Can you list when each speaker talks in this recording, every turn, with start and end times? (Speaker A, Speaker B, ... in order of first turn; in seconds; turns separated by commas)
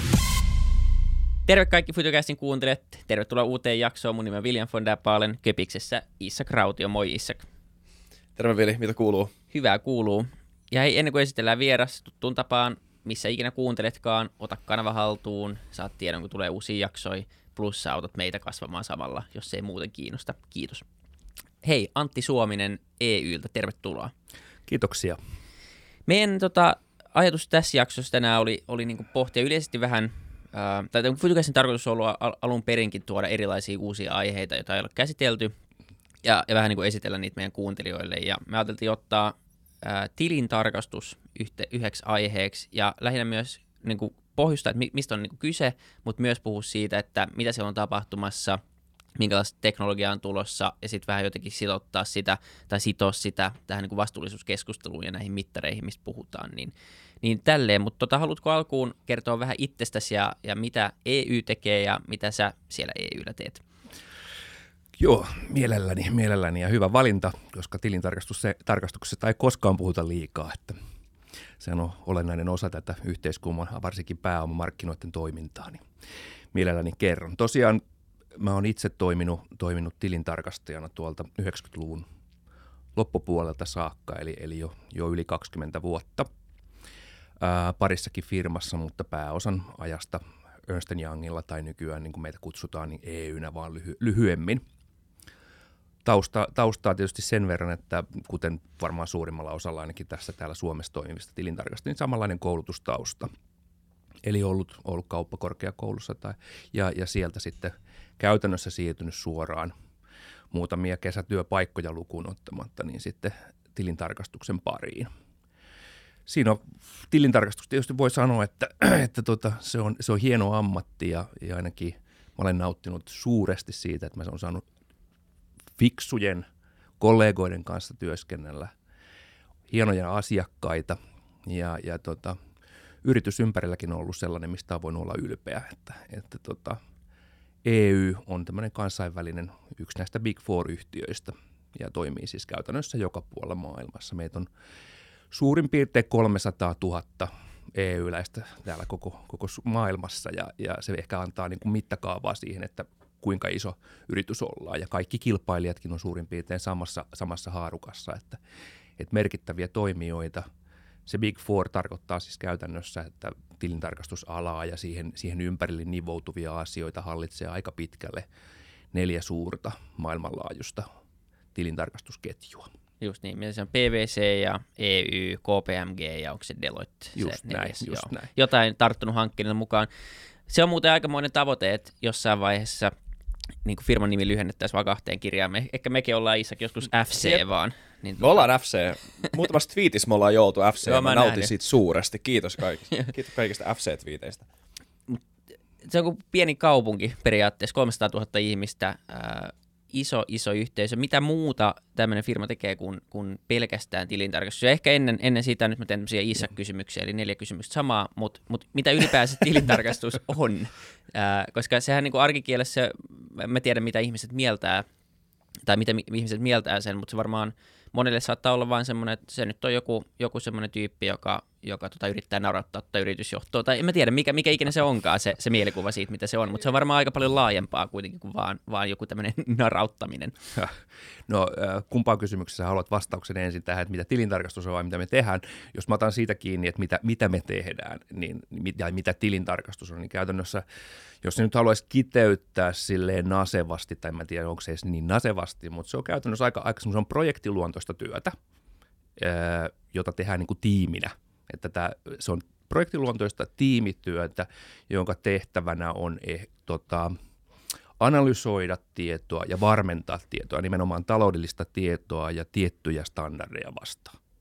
Speaker A: 1.5-7.5, Speaker B: 8.4-9.3, Speaker A: 9.5-20.8, Speaker A: 21.6-24.1, Speaker C: 24.7-25.2, Speaker A: 26.1-35.5, Speaker A: 36.2-48.6, Speaker A: 49.2-63.6, Speaker C: 65.0-70.8, Speaker C: 71.6-75.8, Speaker C: 76.5-77.8, Speaker C: 78.4-82.0, Speaker C: 83.0-86.3, Speaker C: 87.4-94.6, Speaker C: 96.0-103.3, Speaker C: 104.2-109.7, Speaker C: 110.5-115.1, Speaker C: 116.3-124.6, Speaker C: 125.8-126.5, Speaker C: 127.0-128.7, Speaker C: 129.7-132.4, Speaker C: 133.0-136.8, Speaker C: 137.6-144.5, Speaker C: 145.3-158.4, Speaker C: 159.0-160.5, Speaker C: 161.1-168.3, Speaker C: 168.9-170.9, Speaker C: 171.6-172.7, Speaker A: 173.0-179.9, Speaker C: 177.2-178.3, Speaker A: 180.5-182.9, Speaker A: 183.7-188.4, Speaker B: 188.2-194.4, Speaker A: 190.8-191.5, Speaker A: 195.8-214.9, Speaker A: 215.7-230.3, Speaker C: 230.6-240.7, Speaker C: 241.2-248.3, Speaker C: 249.2-257.1, Speaker C: 258.0-264.2